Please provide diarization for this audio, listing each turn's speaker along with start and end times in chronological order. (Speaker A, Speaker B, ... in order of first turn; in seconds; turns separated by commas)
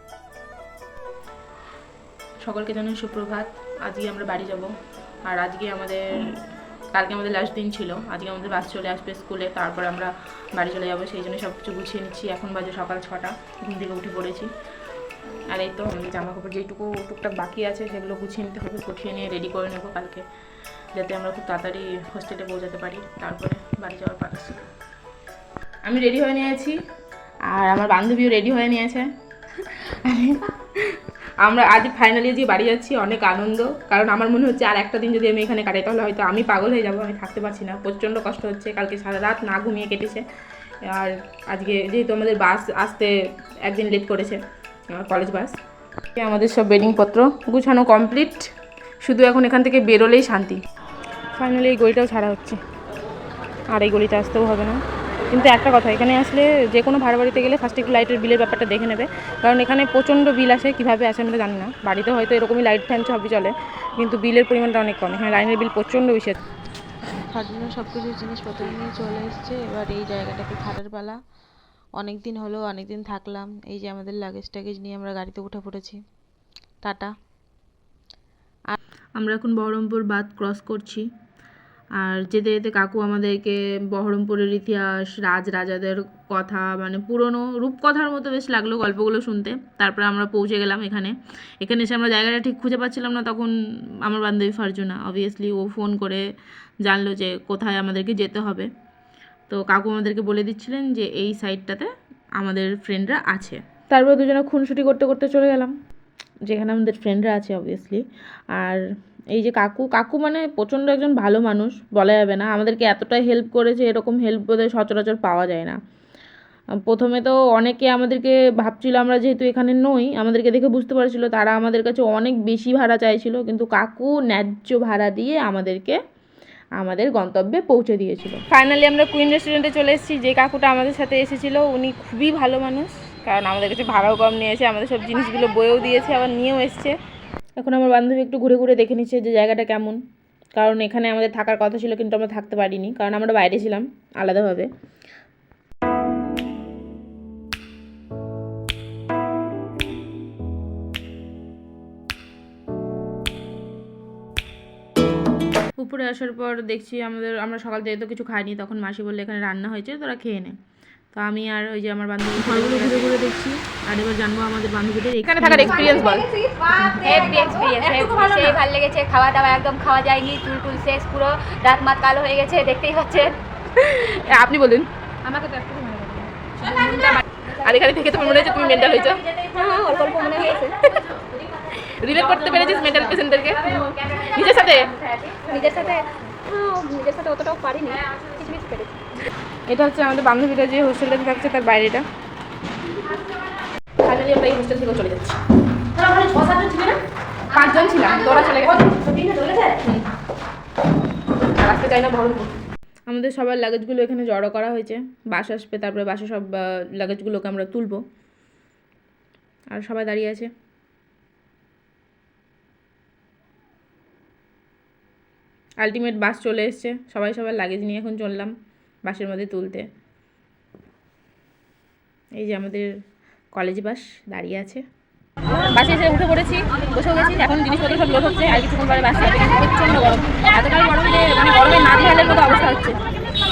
Speaker A: 2.4-4.7, Speaker A: 5.2-6.4, Speaker A: 6.9-14.5, Speaker A: 15.5-20.2, Speaker A: 20.9-24.6, Speaker A: 25.8-26.8, Speaker A: 27.5-40.2, Speaker A: 40.9-44.4, Speaker A: 44.9-45.5, Speaker A: 46.1-48.5, Speaker A: 49.0-50.6, Speaker A: 51.4-52.6, Speaker A: 53.7-66.4, Speaker B: 67.3-71.2, Speaker B: 72.0-76.0, Speaker B: 76.8-77.1, Speaker A: 79.2-81.1, Speaker A: 82.0-96.2, Speaker A: 96.8-98.7, Speaker A: 99.5-105.7, Speaker A: 106.5-115.8, Speaker A: 116.8-126.0, Speaker A: 126.8-136.9, Speaker A: 137.6-140.0, Speaker A: 140.6-144.7, Speaker A: 155.8-160.5, Speaker A: 161.1-168.5, Speaker B: 162.8-163.1, Speaker C: 165.6-173.4, Speaker A: 173.8-174.9, Speaker C: 175.2-181.8, Speaker A: 176.6-179.2, Speaker A: 181.8-184.9, Speaker C: 182.5-183.2, Speaker C: 183.7-189.1, Speaker A: 189.7-192.0, Speaker A: 194.0-195.4, Speaker A: 195.9-197.0, Speaker A: 197.5-200.1, Speaker C: 197.5-199.8, Speaker A: 201.6-202.6, Speaker A: 203.1-208.0, Speaker A: 209.7-210.5, Speaker A: 215.8-218.5, Speaker A: 219.1-219.8, Speaker A: 222.4-222.9, Speaker A: 223.5-224.8, Speaker A: 225.7-233.0